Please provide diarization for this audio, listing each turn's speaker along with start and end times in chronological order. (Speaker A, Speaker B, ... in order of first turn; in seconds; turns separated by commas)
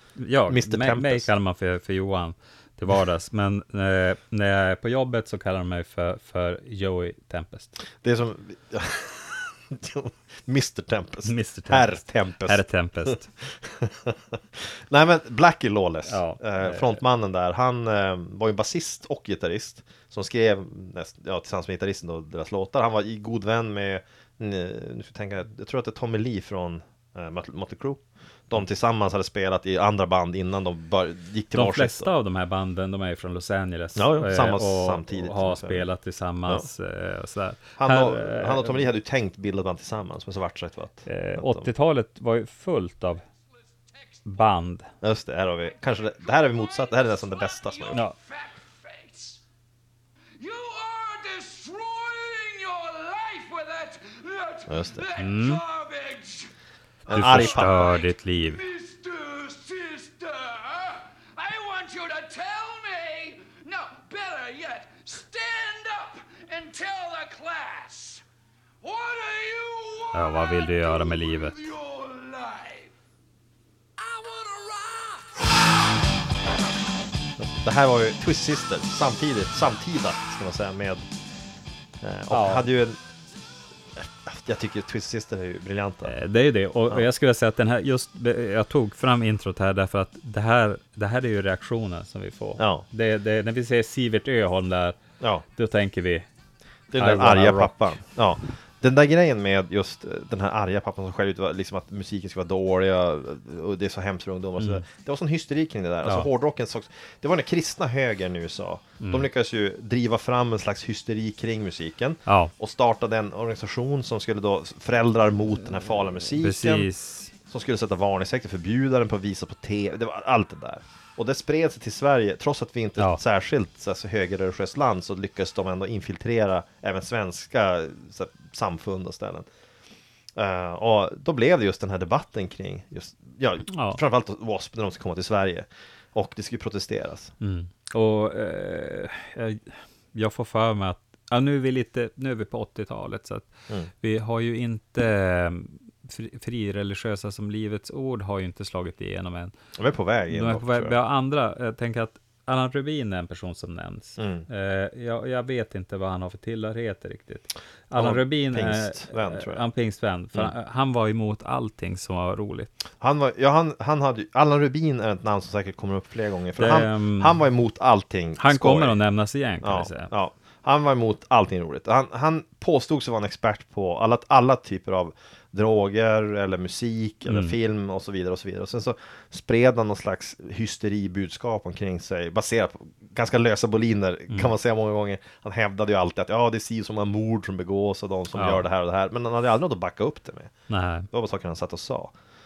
Speaker A: 0.2-7.7, Speaker B: 0.5-1.3, Speaker B: 8.0-32.1, Speaker A: 11.2-13.3, Speaker A: 16.1-17.0, Speaker A: 31.5-38.8, Speaker B: 33.9-35.9, Speaker B: 37.8-41.7, Speaker A: 41.0-43.2, Speaker C: 43.6-44.5, Speaker A: 44.2-44.9, Speaker B: 45.0-48.0, Speaker C: 45.7-49.4, Speaker C: 50.4-56.5, Speaker B: 54.7-55.0, Speaker A: 55.2-55.6, Speaker C: 57.0-68.2, Speaker B: 57.1-57.9, Speaker A: 57.1-58.6, Speaker C: 68.8-72.9, Speaker A: 70.1-71.5, Speaker C: 74.0-75.6, Speaker B: 77.4-81.0, Speaker B: 82.0-83.0, Speaker A: 82.3-82.7, Speaker B: 84.0-86.2, Speaker A: 86.0-95.0, Speaker B: 92.6-92.8, Speaker A: 95.5-96.2, Speaker B: 96.9-116.9, Speaker A: 97.0-97.8, Speaker A: 104.6-104.8, Speaker A: 109.0-109.3, Speaker A: 112.2-112.5, Speaker A: 116.4-117.3, Speaker B: 117.5-129.5, Speaker B: 130.3-137.3, Speaker A: 133.7-134.0, Speaker A: 137.4-149.5, Speaker B: 149.8-151.0, Speaker A: 150.3-162.7, Speaker B: 154.2-154.4, Speaker B: 157.9-159.6, Speaker B: 163.0-169.0, Speaker A: 166.6-167.3, Speaker A: 168.4-170.1, Speaker B: 169.6-190.5, Speaker A: 177.3-177.6, Speaker A: 188.3-188.6, Speaker A: 190.7-191.1, Speaker B: 191.1-192.1